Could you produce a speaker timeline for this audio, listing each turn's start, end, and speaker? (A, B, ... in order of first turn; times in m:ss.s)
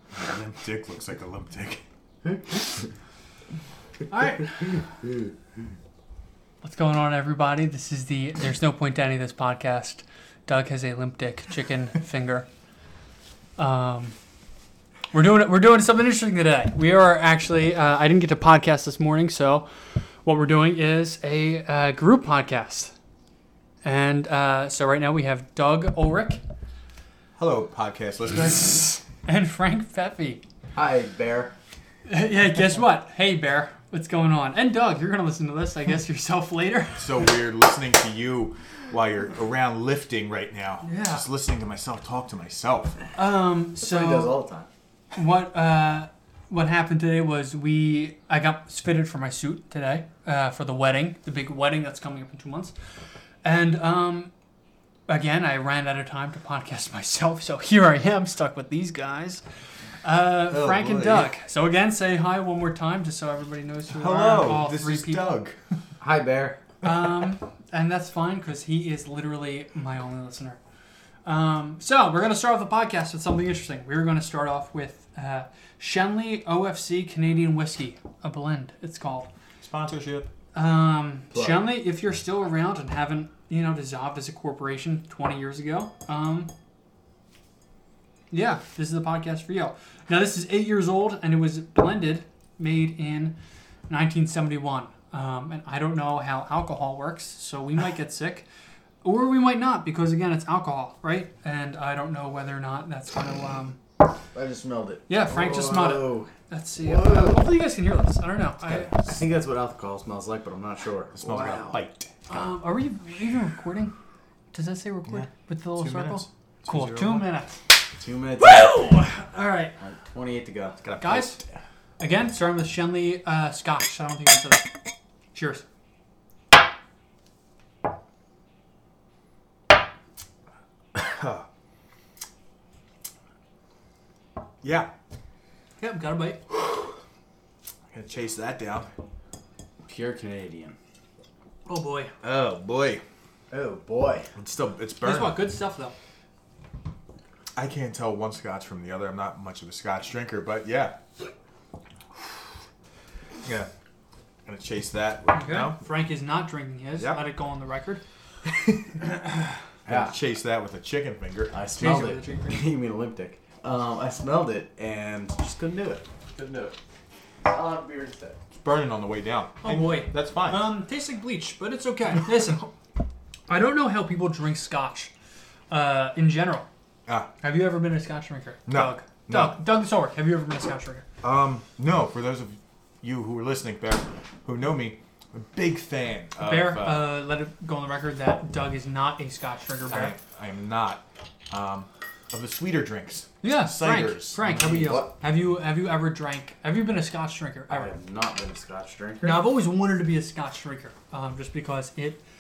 0:00.2-0:01.8 A
0:02.2-0:02.6 B
0:04.1-0:04.9 C
0:06.6-0:12.5 C
0:13.6-0:14.2 C
0:15.1-0:22.9 C
0:23.8-0:26.4 C
0:27.4-0:29.0 A
0:29.0-0:30.4 C
0:30.7-0:31.5 B
0:32.1-0:37.1 C
0:37.0-0:43.0 A
0:40.8-0:41.2 C
0:43.1-0:44.4 C
0:43.8-0:44.7 B
0:45.1-0:52.7 C
0:53.4-0:54.3 C
0:55.1-0:59.4 C
1:00.0-1:05.4 C
1:00.5-1:01.3 A
1:03.9-1:05.6 A
1:06.0-1:06.6 B
1:06.8-1:10.6 C
1:11.2-1:19.3 C
1:19.6-1:20.3 A
1:20.5-1:26.5 C
1:21.3-1:21.6 B
1:28.3-1:33.4 C
1:33.9-1:38.5 C
1:39.0-1:43.8 C
1:44.3-1:47.5 B
1:45.1-1:49.0 C
1:48.7-1:51.8 B
1:51.2-1:52.1 A
1:52.3-1:54.0 C
1:54.5-1:57.6 C
1:55.1-1:57.3 A
1:58.0-1:59.0 B
1:58.4-1:59.7 C
1:59.8-2:00.8 B
2:00.8-2:01.4 A
2:01.0-2:01.4 C
2:02.0-2:04.7 C
2:05.3-2:05.6 C
2:10.9-2:11.5 A
2:14.6-2:14.9 A
2:15.8-2:16.4 C
2:17.9-2:18.9 A
2:19.8-2:20.8 B
2:21.7-2:22.1 C
2:22.2-2:23.0 A
2:23.5-2:24.3 B
2:24.4-2:25.4 A
2:25.0-2:26.0 C
2:27.6-2:31.0 A
2:33.4-2:33.7 A
2:34.5-2:35.8 A
2:35.3-2:38.0 C
2:37.0-2:37.2 A
2:38.4-2:39.1 A
2:39.9-2:40.2 B
2:39.9-2:41.6 A
2:41.5-2:46.8 B
2:41.7-2:42.7 C
2:47.4-2:48.4 B
2:48.6-2:50.7 A
2:49.6-2:52.7 C
2:53.5-2:55.1 C
2:55.7-2:56.7 C
2:57.4-3:01.0 C
2:58.7-2:59.6 A
3:01.2-3:07.2 A
3:06.4-3:10.2 C
3:09.9-3:14.4 A
3:13.4-3:17.9 C
3:14.4-3:15.1 B
3:17.7-3:19.4 B
3:19.2-3:22.2 C